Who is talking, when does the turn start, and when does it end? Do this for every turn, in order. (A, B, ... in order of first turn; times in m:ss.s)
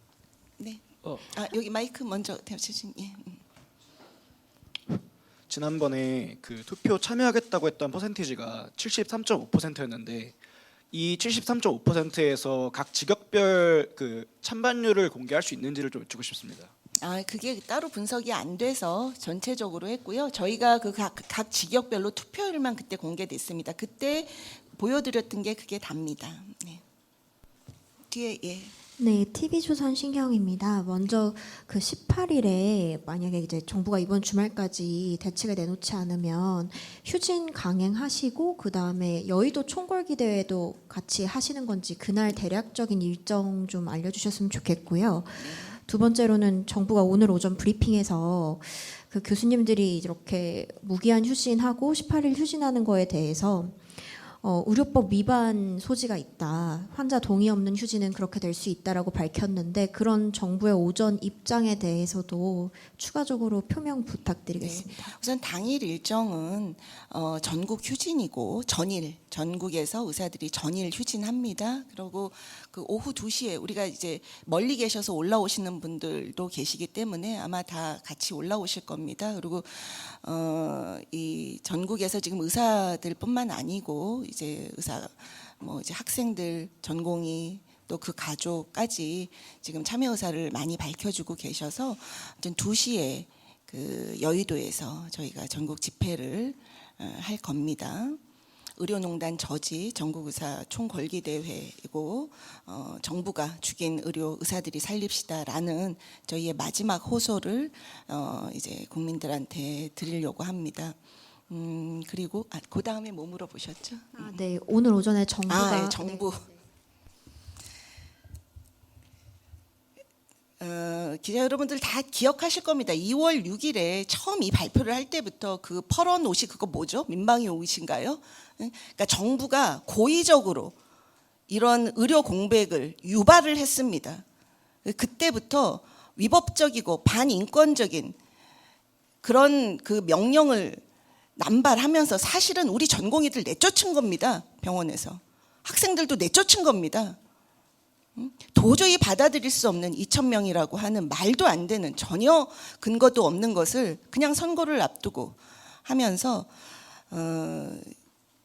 0:00.6-0:03.4 A
0:05.5-0:10.4 B
0:10.9-0:16.7 B
0:17.0-0:26.8 A
0:28.1-0:28.7 A
0:29.0-1:05.2 C
0:45.4-0:45.8 A
1:04.6-1:38.2 A
1:38.8-1:51.0 A
1:51.5-1:54.4 A
1:54.2-1:56.6 C
1:55.5-1:56.5 A
2:00.6-2:10.8 A
2:11.5-2:14.2 A
2:14.8-2:18.2 A
2:19.2-2:20.8 A
2:21.4-2:27.2 A
2:28.2-2:36.5 A
2:37.1-2:38.0 A